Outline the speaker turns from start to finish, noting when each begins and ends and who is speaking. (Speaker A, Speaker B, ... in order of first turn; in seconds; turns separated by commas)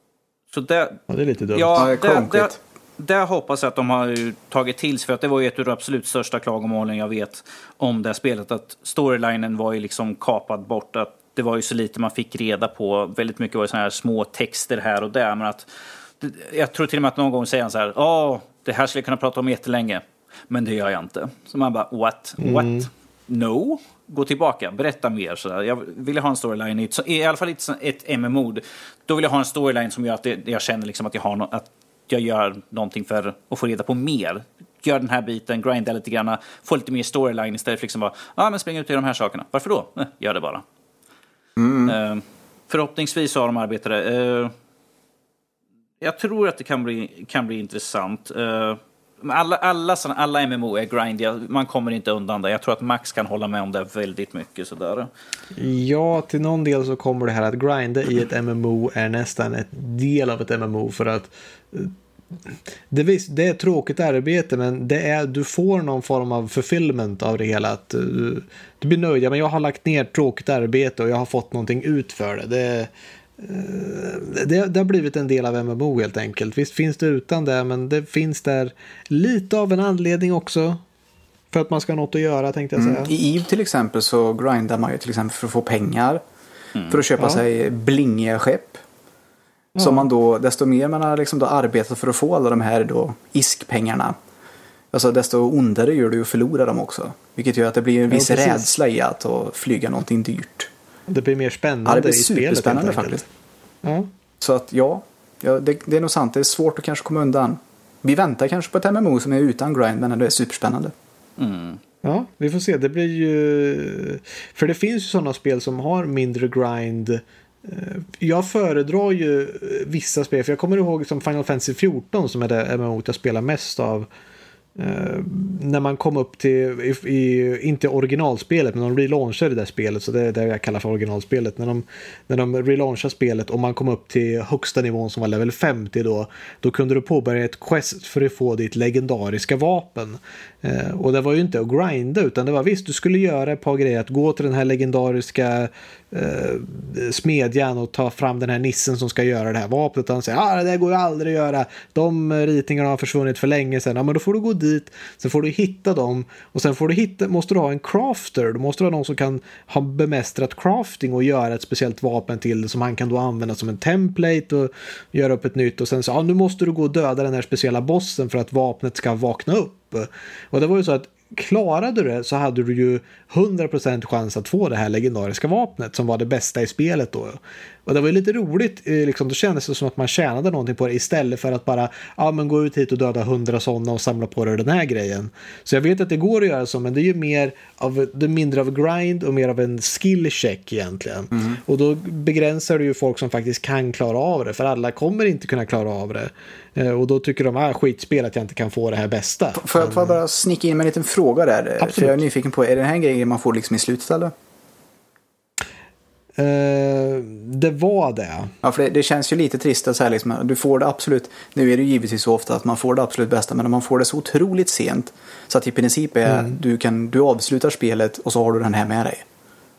Speaker A: 0.5-1.0, Speaker B: 1.1-1.9, Speaker A: 1.5-40.6, Speaker C: 1.8-2.6, Speaker B: 22.4-22.9, Speaker C: 41.6-42.0, Speaker A: 41.9-44.5, Speaker A: 46.0-55.1, Speaker B: 55.6-61.9, Speaker B: 62.9-80.8, Speaker B: 81.5-83.1, Speaker C: 82.8-86.2, Speaker A: 86.8-87.0, Speaker C: 86.9-88.8, Speaker B: 89.8-90.1, Speaker C: 89.8-94.2, Speaker C: 94.9-100.7, Speaker B: 98.1-98.7, Speaker B: 101.1-103.2, Speaker C: 101.9-103.3, Speaker B: 103.8-104.1, Speaker C: 104.4-110.9, Speaker A: 111.4-111.8, Speaker B: 112.0-124.1, Speaker B: 124.8-200.2, Speaker C: 199.6-204.3, Speaker B: 201.8-202.2, Speaker B: 206.4-208.5, Speaker C: 208.6-219.2, Speaker B: 216.3-216.6